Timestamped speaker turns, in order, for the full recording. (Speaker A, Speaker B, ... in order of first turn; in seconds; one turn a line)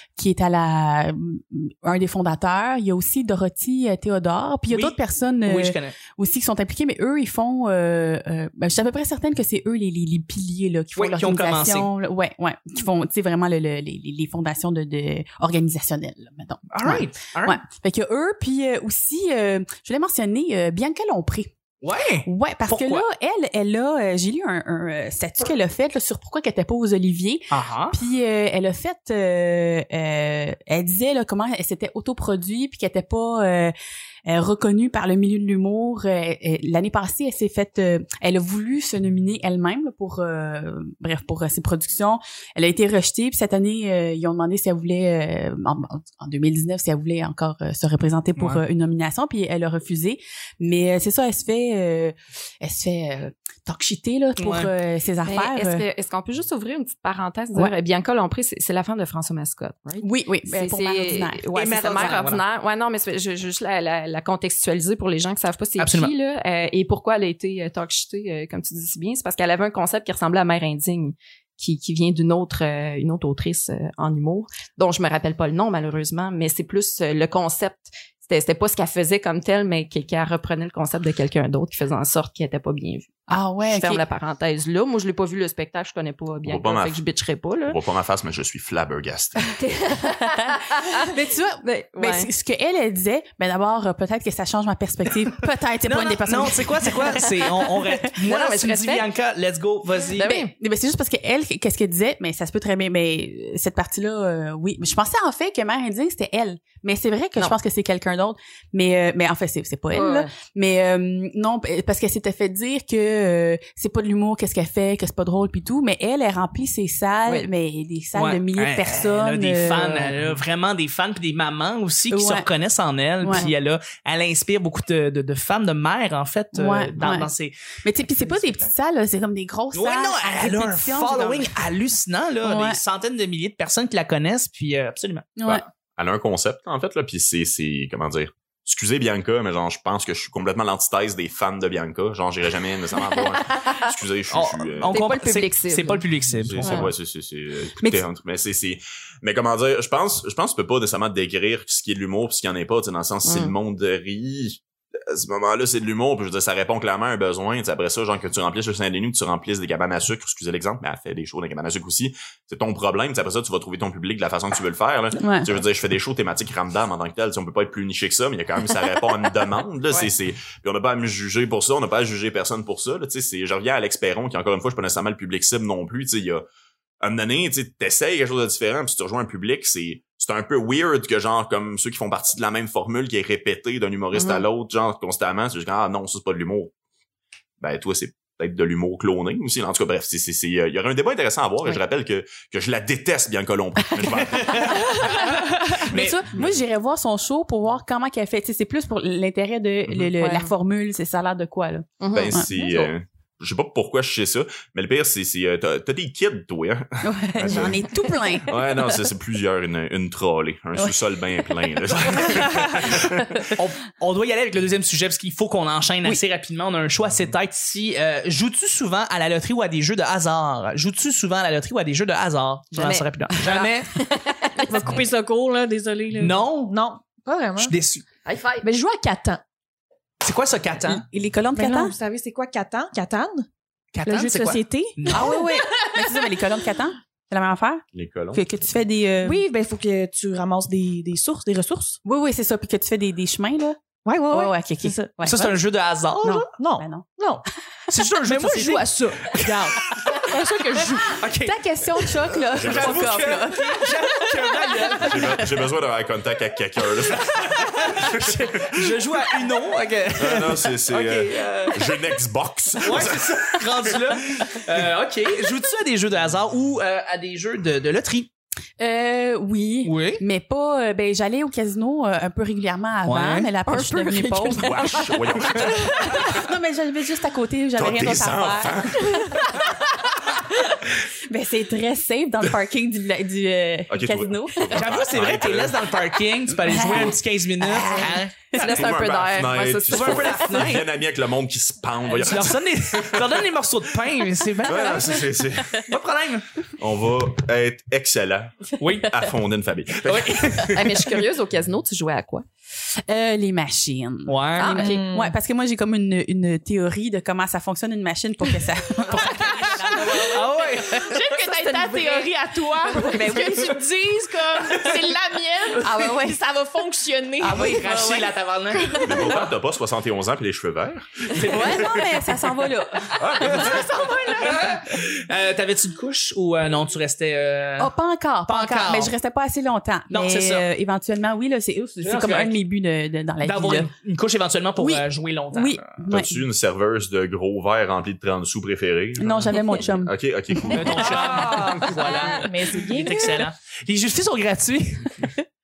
Speaker A: 0.2-21.5
Speaker B: 4.7-6.0
Speaker B: 10.9-11.9
Speaker B: 16.7-17.6
Speaker B: 21.8-23.1
Speaker A: 22.2-33.7
Speaker B: 27.5-28.0
Speaker A: 34.3-55.8
Speaker B: 48.4-48.6
Speaker B: 54.4-54.7
Speaker C: 55.2-83.1
Speaker A: 60.0-61.4
Speaker B: 61.5-62.4
Speaker B: 65.8-66.1
Speaker A: 83.3-84.0
Speaker C: 83.6-87.8
Speaker D: 86.4-87.0
Speaker D: 87.7-89.5
Speaker C: 89.6-92.3
Speaker A: 90.2-98.0
Speaker B: 95.8-100.4
Speaker C: 98.2-99.1
Speaker C: 100.2-100.5
Speaker A: 100.2-120.4
Speaker C: 109.9-110.3
Speaker B: 118.2-127.5
Speaker A: 122.1-122.5
Speaker A: 123.2-123.5
Speaker A: 126.5-127.3
Speaker A: 127.8-131.6
Speaker B: 128.2-128.7
Speaker B: 129.7-135.4
Speaker A: 132.4-132.8
Speaker A: 135.4-135.6
Speaker D: 135.5-144.9
Speaker C: 143.5-143.8
Speaker B: 144.3-146.9
Speaker C: 144.9-146.0
Speaker D: 146.3-176.4
Speaker C: 146.6-146.9
Speaker C: 153.2-153.5
Speaker A: 165.2-165.5
Speaker D: 177.0-186.7
Speaker C: 184.1-184.4
Speaker D: 187.6-195.2
Speaker A: 194.0-194.3
Speaker B: 194.4-196.2
Speaker A: 194.9-202.8
Speaker C: 200.2-200.5
Speaker C: 202.0-202.9
Speaker D: 202.1-207.9
Speaker A: 207.0-208.9
Speaker D: 208.4-213.5
Speaker A: 212.1-213.4
Speaker B: 213.6-223.9
Speaker C: 222.8-224.8
Speaker E: 224.6-227.7
Speaker B: 226.2-226.7
Speaker B: 227.6-228.0
Speaker C: 228.2-228.7
Speaker E: 228.6-229.4
Speaker B: 230.2-231.0
Speaker A: 230.9-231.9
Speaker E: 231.6-233.5
Speaker B: 233.9-235.4
Speaker E: 234.1-235.9
Speaker A: 235.1-239.4
Speaker D: 237.9-238.4
Speaker E: 239.2-242.0
Speaker A: 242.1-243.8
Speaker E: 244.1-245.1
Speaker A: 244.3-245.6
Speaker B: 245.2-246.5
Speaker A: 246.2-247.1
Speaker E: 246.6-247.4
Speaker B: 247.9-255.4
Speaker E: 248.2-251.3
Speaker A: 251.4-254.4
Speaker D: 252.5-253.4
Speaker A: 254.9-255.5
Speaker D: 255.0-259.0
Speaker B: 257.1-262.0
Speaker D: 260.2-264.6
Speaker B: 262.8-268.3
Speaker A: 268.8-279.7
Speaker B: 269.9-270.2
Speaker B: 273.1-273.5
Speaker C: 273.7-276.1
Speaker D: 274.6-276.4
Speaker D: 277.8-279.8
Speaker A: 280.4-285.1
Speaker D: 283.9-285.9
Speaker B: 284.7-288.3
Speaker A: 286.6-288.8
Speaker C: 288.5-290.8
Speaker D: 288.6-293.4
Speaker B: 289.9-290.9
Speaker B: 292.1-295.2
Speaker D: 294.6-295.8
Speaker A: 294.8-295.8
Speaker B: 295.8-296.5
Speaker D: 296.8-300.9
Speaker B: 298.8-299.2
Speaker B: 300.1-301.0
Speaker C: 300.7-302.4
Speaker A: 303.1-310.5
Speaker B: 304.3-304.8
Speaker C: 304.6-305.0
Speaker E: 304.8-305.4
Speaker E: 309.4-318.2
Speaker B: 310.3-311.1
Speaker C: 311.4-312.3
Speaker A: 312.9-313.8
Speaker A: 315.8-316.4
Speaker B: 317.4-319.4
Speaker A: 317.5-318.3
Speaker E: 318.8-319.3
Speaker D: 319.0-322.0
Speaker B: 321.3-322.2
Speaker A: 321.5-324.8
Speaker D: 323.2-323.9
Speaker B: 323.4-327.9
Speaker E: 323.7-324.6
Speaker A: 327.8-333.9
Speaker B: 328.5-329.1
Speaker B: 330.1-330.7
Speaker B: 332.0-332.6
Speaker B: 333.4-335.9
Speaker A: 334.8-336.4
Speaker D: 336.1-341.5
Speaker A: 339.2-341.4
Speaker B: 340.7-345.3
Speaker E: 341.0-343.5